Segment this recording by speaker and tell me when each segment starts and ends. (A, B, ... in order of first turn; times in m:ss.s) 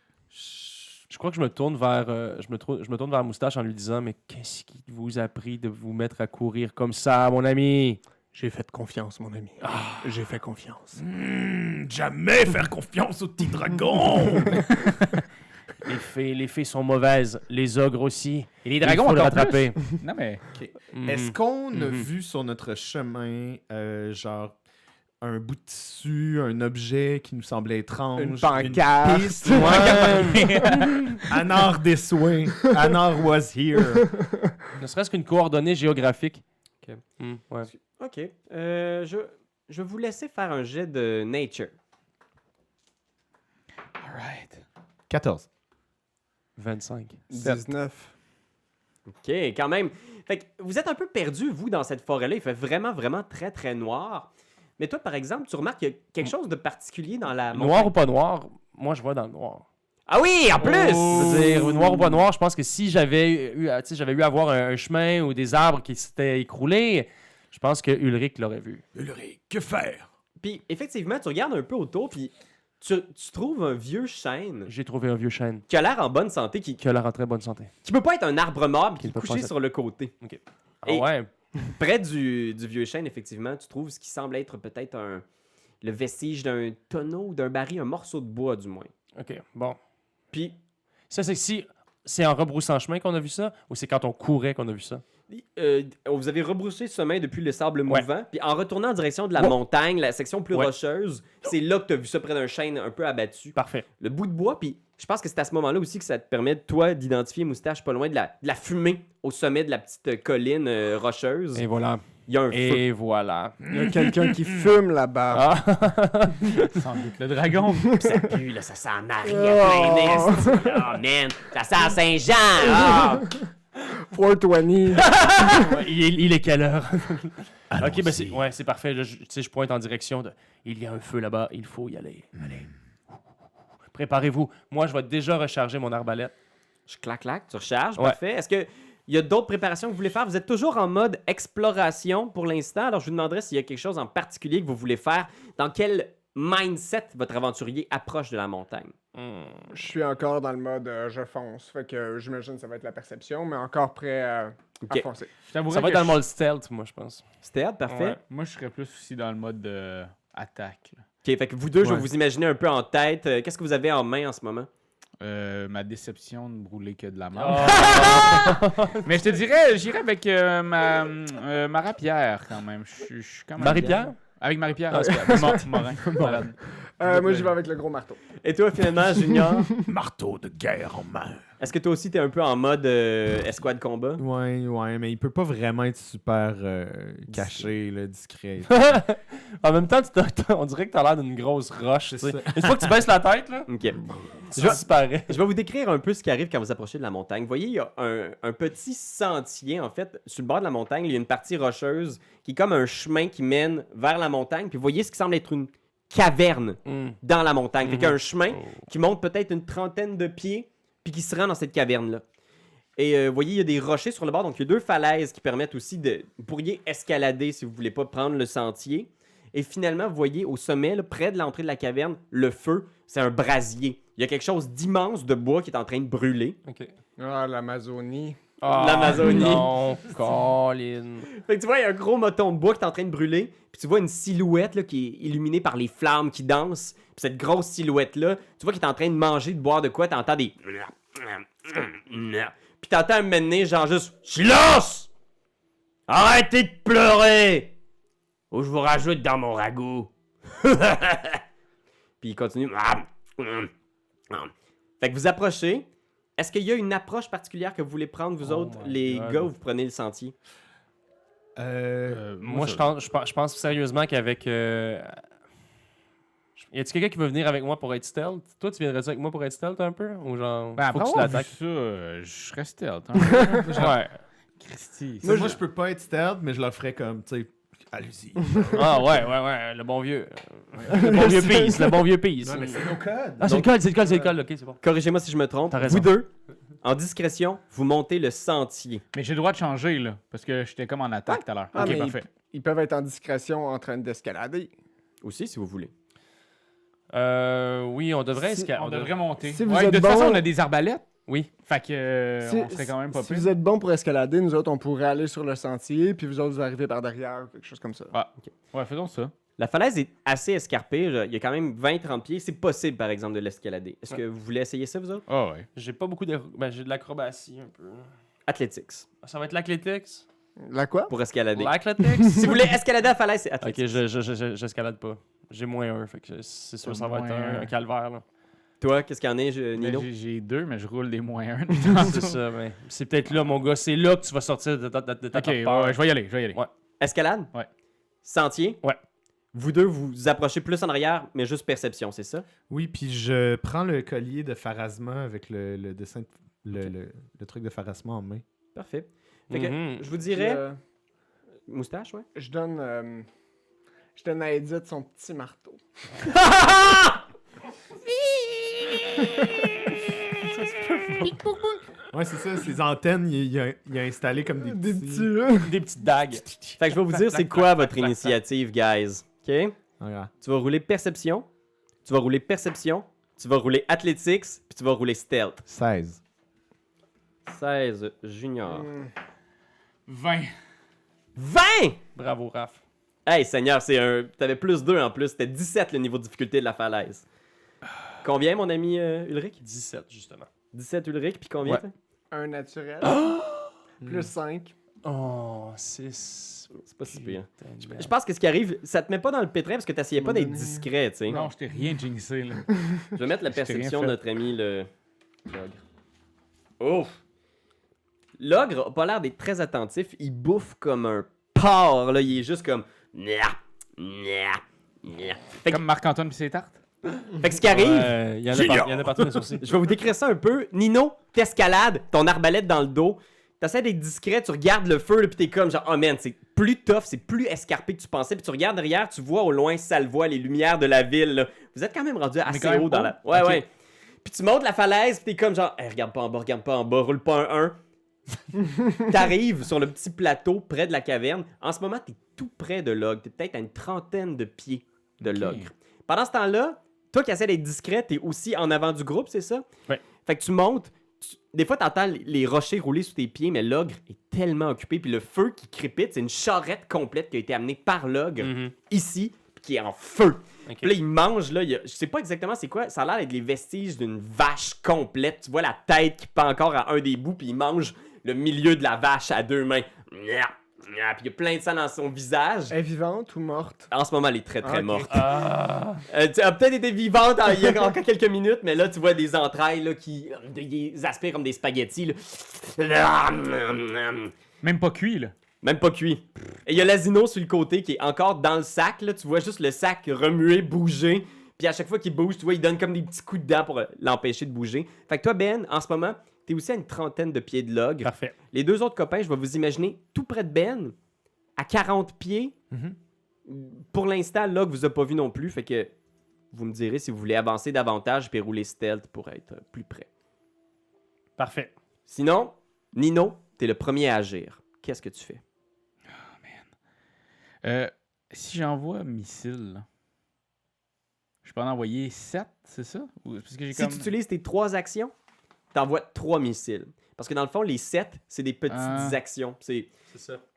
0:01.1-0:08.0 A
0:08.3-0:11.0 B
0:09.6-0:10.2 A
0:11.0-0:14.7 C
0:15.8-0:20.0 A
0:18.8-0:20.4 D
0:20.5-0:24.6 C
0:21.0-0:22.1 A
0:25.2-0:30.3 C
0:28.2-0:30.2 B
0:29.5-0:31.2 A
0:30.2-0:31.2 D
0:31.2-0:34.1 C
0:34.0-0:34.2 B
0:34.8-0:36.4 A
0:37.2-0:37.7 A
0:37.8-0:41.7 E
0:44.0-0:44.6 D
0:45.1-0:45.5 C
0:46.6-0:47.2 A
0:47.3-0:48.1 B
0:49.1-0:57.9 E
0:57.5-0:59.7 A
1:00.1-1:01.5 E
1:00.6-1:01.6 D
1:01.1-1:08.8 A
1:09.0-1:10.1 C
1:10.4-1:14.7 E
1:14.7-1:15.7 A
1:15.7-1:16.8 E
1:16.8-1:17.7 A
1:17.8-1:20.1 E
1:19.0-1:19.6 A
1:20.2-1:21.3 A
1:21.7-1:25.2 E
1:25.8-1:28.9 E
1:29.2-1:29.8 A
1:31.1-1:35.0 A
1:35.3-1:51.6 E
1:43.6-1:43.9 A
1:51.6-1:53.7 A
1:52.3-1:52.8 E
1:53.7-1:55.4 B
1:55.3-1:56.8 A
1:56.7-1:58.0 D
1:58.0-2:03.3 E
1:59.3-2:00.6 B
2:02.7-2:03.4 B
2:04.1-2:05.8 B
2:05.0-2:12.3 A
2:07.7-2:08.4 C
2:12.4-2:12.7 C
2:13.9-2:16.3 A
2:16.9-2:28.9 E
2:29.2-2:29.7 A
2:29.7-2:35.3 B
2:35.5-2:36.2 D
2:35.7-2:37.2 A
2:37.4-2:38.2 E
2:37.9-2:38.2 A
2:38.3-2:41.0 D
2:41.2-2:44.7 E
2:41.8-2:42.1 C
2:45.2-2:48.2 D
2:47.4-2:49.2 A
2:49.0-2:57.5 D
2:53.6-2:54.2 A
2:54.9-2:55.6 A
2:54.9-2:58.2 B
2:58.4-2:59.7 E
2:59.0-2:59.9 B
2:59.9-3:01.4 C
3:01.6-3:04.2 E
3:04.2-3:09.0 C
3:07.3-3:07.7 E
3:08.7-3:13.7 A
3:12.1-3:12.9 C
3:13.7-3:14.0 E
3:14.5-3:15.4 A
3:14.5-3:32.2 E
3:26.9-3:27.2 A
3:27.8-3:28.8 A
3:33.0-3:46.6 E
3:46.7-3:46.9 A
3:47.2-3:48.4 B
3:48.6-3:51.3 A
3:48.6-3:49.7 E
3:51.4-4:05.1 E
4:06.1-4:07.7 E
4:08.5-4:11.4 E
4:12.2-4:13.7 E
4:14.3-4:15.9 E
4:16.4-4:20.4 E
4:18.7-4:19.5 A
4:21.6-4:22.2 C
4:22.1-4:22.9 D
4:22.4-4:25.2 A
4:26.6-4:31.5 A
4:30.8-4:34.0 D
4:33.2-4:33.6 B
4:33.6-4:33.9 C
4:33.8-4:34.2 A
4:34.6-4:35.3 D
4:35.2-4:39.1 C
4:35.2-4:35.6 B
4:38.8-4:42.8 A
4:40.8-4:42.0 B
4:42.5-4:43.5 C
4:43.4-4:44.8 A
4:43.4-4:43.7 E
4:44.8-4:46.3 E
4:45.7-4:46.1 A
4:46.8-4:49.0 E
4:49.1-4:52.3 D
4:51.7-4:54.7 B
4:55.2-4:55.9 E
4:57.1-4:59.2 A
4:58.8-5:01.0 D
4:59.4-5:00.4 B
5:01.6-5:03.5 D
5:02.4-5:08.1 B
5:08.1-5:09.3 D
5:09.6-5:15.3 E
5:15.3-5:15.7 D
5:15.8-5:18.1 A
5:18.5-5:19.1 E
5:19.2-5:20.2 A
5:20.6-5:21.1 B
5:21.1-5:21.8 E
5:21.6-5:22.6 A
5:22.0-5:22.6 B
5:22.3-5:24.0 E
5:23.6-5:28.2 A
5:26.8-5:27.7 D
5:28.8-5:30.1 E
5:29.8-5:32.4 D
5:32.0-5:36.7 A
5:35.3-5:36.6 D
5:37.0-5:37.5 E
5:38.2-5:38.8 E
5:39.5-5:42.4 E
5:42.7-5:48.4 C
5:48.8-5:50.6 E
5:49.5-5:50.1 A
5:50.3-5:50.8 B
5:51.7-5:52.3 E
5:52.4-5:53.3 B
5:54.2-5:55.8 B
5:56.5-5:57.1 E
5:59.2-6:01.8 B
6:02.1-6:05.3 C
6:04.6-6:05.7 B
6:05.5-6:08.4 A
6:06.8-6:09.8 E
6:10.0-6:10.3 C
6:10.4-6:11.5 E
6:12.0-6:15.6 E
6:15.7-6:16.2 C
6:17.5-6:18.9 E
6:18.7-6:19.1 B
6:20.1-6:20.5 D
6:21.4-6:22.0 E
6:22.2-6:22.8 A
6:23.3-6:27.2 E
6:28.2-6:29.6 E
6:29.6-6:30.5 A
6:30.7-6:31.9 E
6:32.3-6:33.3 B
6:33.1-6:33.6 A
6:34.0-6:34.7 B
6:35.0-6:38.1 A
6:36.8-6:41.5 E
6:40.2-6:40.9 B
6:41.3-6:42.8 D
6:43.2-6:44.9 E
6:43.5-6:44.2 D
6:45.5-6:45.8 E
6:46.8-6:47.2 E
6:48.4-6:55.8 E
6:55.7-6:56.8 D
6:57.4-6:59.0 E
6:57.6-6:59.7 A
6:59.6-7:13.7 E
7:12.5-7:13.6 D
7:14.2-7:17.8 E
7:19.0-7:29.6 E
7:25.2-7:25.7 D
7:30.3-7:52.8 E
7:38.4-7:38.7 A
7:52.7-7:53.9 B
7:53.9-7:55.2 E
7:54.6-7:55.2 B
7:55.1-7:56.0 A
7:56.1-8:04.3 E
8:04.6-8:05.3 D
8:05.6-8:21.0 E
8:18.0-8:18.4 A
8:21.6-8:22.6 E
8:22.7-8:23.0 C
8:23.5-8:25.9 E
8:26.5-8:30.1 E
8:31.4-8:31.7 A
8:32.1-8:35.4 E
8:36.1-8:36.7 D
8:37.6-8:39.8 D
8:41.4-8:44.1 D
8:43.7-8:45.1 E
8:45.7-8:49.9 E
8:48.7-8:49.2 D
8:50.1-8:50.4 A